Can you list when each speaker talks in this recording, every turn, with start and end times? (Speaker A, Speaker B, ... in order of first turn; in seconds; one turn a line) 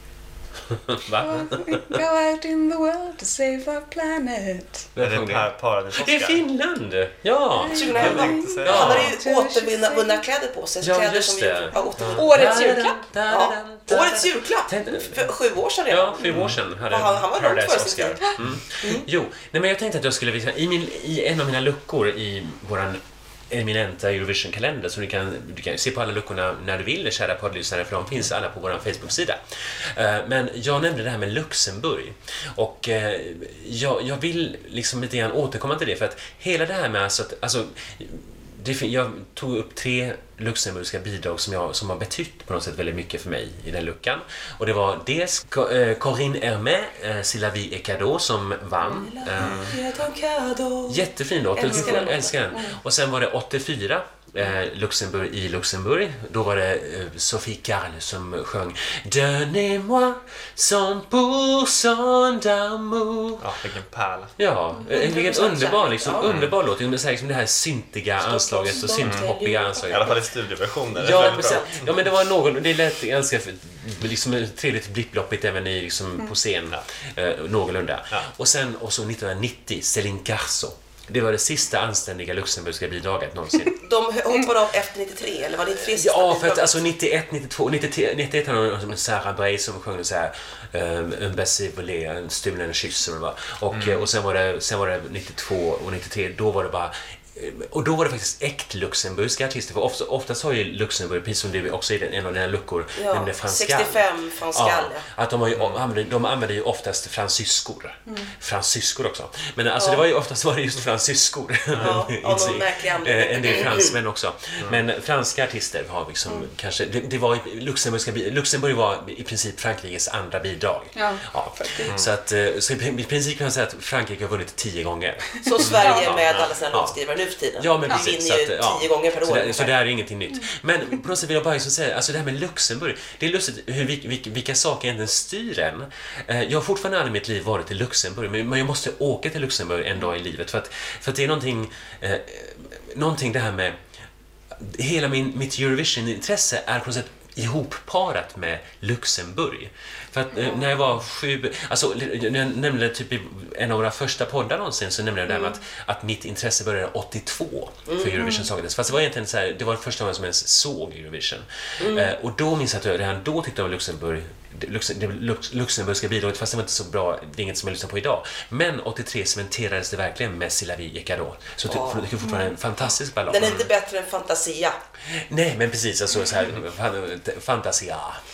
Speaker A: 0.7-1.8
Speaker B: 1.2-4.9
Speaker A: 4.9-9.1
Speaker C: 5.0-6.4
Speaker B: 7.6-10.2
Speaker D: 7.7-12.7
Speaker C: 7.9-9.1
Speaker A: 10.8-15.3
Speaker B: 11.7-13.0
Speaker D: 13.3-19.1
Speaker A: 15.9-49.8
Speaker C: 16.3-16.6
Speaker D: 48.8-52.3
Speaker C: 49.4-49.7
Speaker A: 50.9-63.5
Speaker B: 51.6-52.8
Speaker C: 63.4-64.4
Speaker A: 64.4-70.2
Speaker D: 64.9-66.3
Speaker C: 66.2-66.5
Speaker D: 68.2-70.2
Speaker C: 69.0-69.3
Speaker C: 69.9-72.0
Speaker A: 70.9-83.8
Speaker D: 71.0-71.8
Speaker D: 83.8-86.8
Speaker A: 85.9-127.0
Speaker C: 93.7-94.0
Speaker D: 103.0-105.1
Speaker C: 105.5-105.8
Speaker D: 109.8-110.0
Speaker C: 111.7-112.0
Speaker D: 111.7-114.0
Speaker B: 120.9-121.9
Speaker D: 125.4-129.7
Speaker B: 125.6-126.1
Speaker C: 126.2-126.5
Speaker A: 127.6-143.8
Speaker A: 144.5-173.7
Speaker D: 155.3-155.6
Speaker D: 157.9-158.4
Speaker B: 158.2-158.4
Speaker D: 161.8-162.1
Speaker D: 171.7-172.1
Speaker B: 172.2-172.5
Speaker D: 173.3-174.8
Speaker A: 175.1-178.2